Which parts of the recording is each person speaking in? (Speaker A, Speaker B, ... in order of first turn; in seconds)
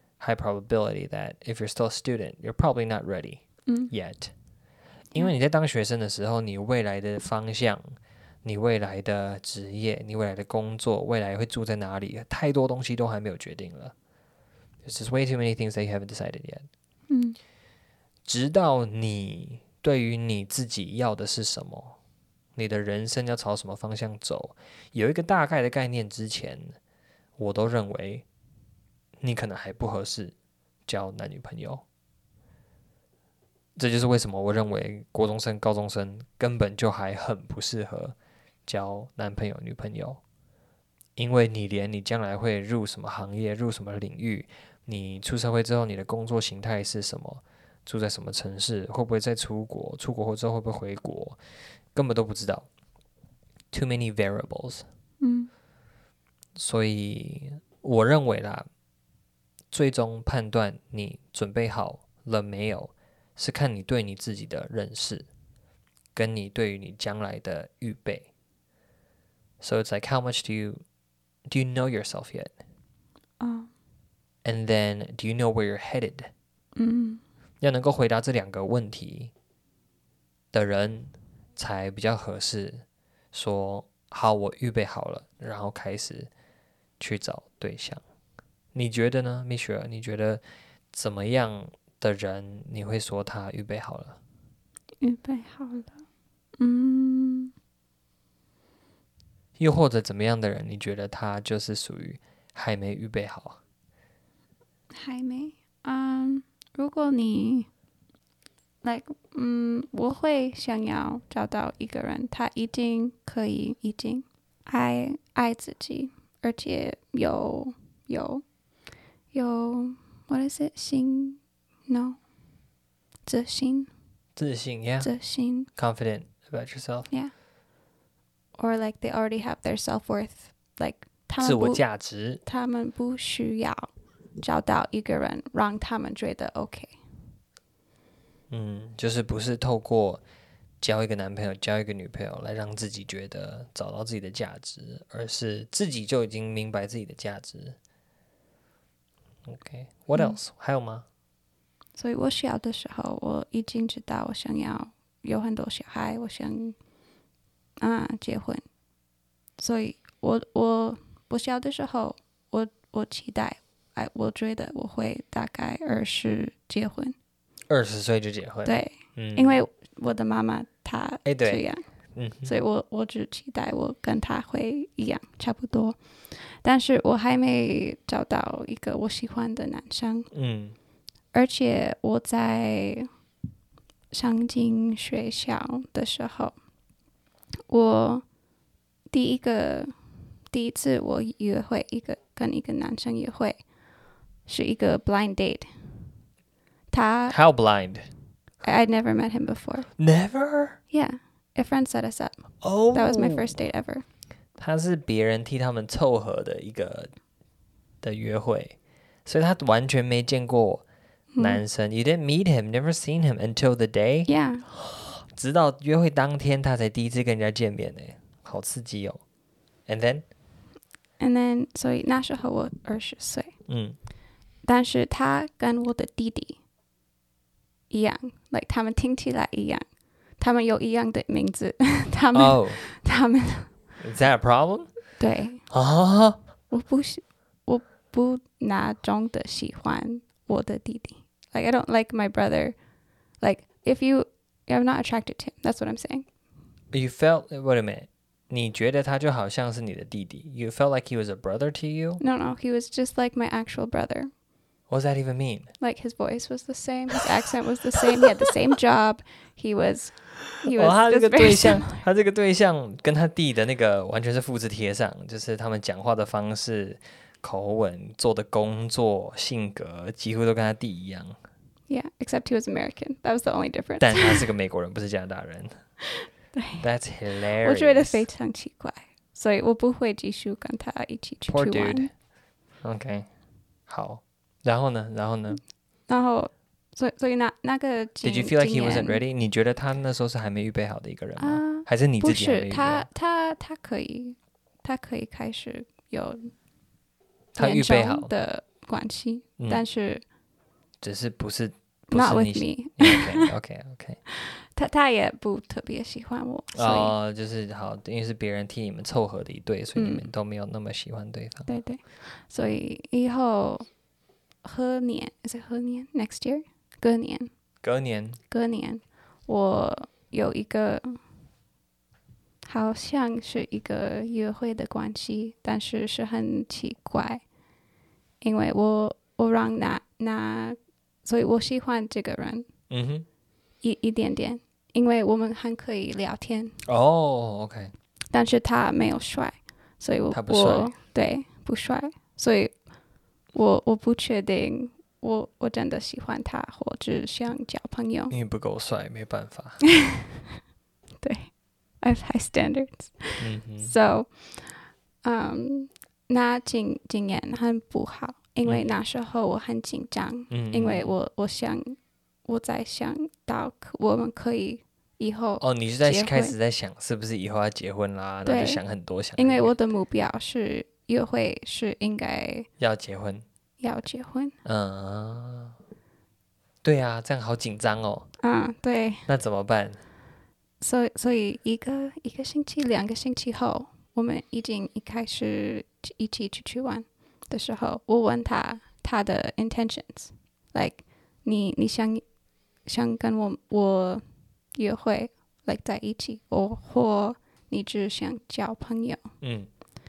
Speaker A: 0.2-4.3, 5.1-13.9, 14.8-16.7, 18.2-22.0, 22.6-26.8, 27.4-28.2, 29.2-30.3, 30.9-31.8, 33.8-38.1, 38.7-40.2, 41.2-51.4, 51.9-52.7, 53.7-54.9, 56.5-58.7, 59.7-65.3, 66.1-68.3, 69.6-70.8, 71.5-72.5, 74.4-76.3, 77.6-79.3, 80.5-86.3, 87.0-88.0, 88.7-94.2, 99.6-103.6, 124.3-125.1, 125.7-127.1, 131.4-132.4, 138.5-140.2, 140.8-147.8, 149.5-151.0, 167.7-169.6, 171.2-171.6, 172.1-172.5, 180.3-180.8, 197.3-198.1, 200.0-200.8, 202.6-203.5, 204.6-207.1, 208.0-210.8, 211.4-219.2, 219.9-220.2, 223.7-224.0, 232.3-232.8, 234.0-234.9, 235.7-236.4, 246.9-252.2, 254.9-255.7, 260.7-271.3, 274.0-275.8, 276.8-278.2, 281.5-282.1, 282.8-283.3, 283.9-285.6, 288.2-293.1, 297.5-298.3, 299.6-299.8, 301.0-304.2, 306.7-311.7, 317.8-318.4, 332.9-333.2, 336.8-337.9, 340.3-340.9, 348.3-349.8, 353.4-353.9, 360.5-361.1, 365.6-369.8, 372.8-373.4, 374.6-375.8, 376.8-378.3, 379.3-380.0, 399.4-399.7
Speaker B: 3.7-3.9, 17.1-17.4, 55.2-55.5, 73.4-73.7, 76.8-77.2, 95.0-96.0, 96.6-97.5, 104.9-107.7, 108.8-118.4, 119.3-122.2, 123.2-123.9, 125.0-125.7, 128.6-131.8, 132.4-133.9, 134.4-137.0, 151.9-156.8, 157.8-158.6, 159.6-167.2, 168.6-171.8, 172.4-180.3, 181.3-183.1, 184.1-186.6, 187.7-188.2, 189.1-189.9, 190.5-193.6, 194.5-195.7, 196.9-197.3, 198.6-199.9, 200.9-204.0, 211.3-211.6, 214.3-214.6, 221.2-223.5, 224.6-226.6, 227.9-229.8, 230.4-233.7, 235.2-235.6, 236.7-242.8, 243.4-246.2, 252.2-254.3, 255.8-262.0, 271.9-274.5, 276.5-276.9, 277.6-282.1, 286.1-289.2, 291.4-296.5, 297.6-300.2, 302.1-303.5, 304.3-307.1, 309.9-310.3, 311.7-313.9, 314.6-317.5, 318.5-321.2, 322.6-327.4, 328.4-332.7, 333.8-336.7, 338.3-342.7, 343.5-348.3, 349.9-350.6, 351.2-351.5, 352.0-366.5, 368.4-368.8, 369.4-372.7, 373.8-374.6, 378.4-379.2, 380.8-392.2, 392.9-394.2, 394.7-399.3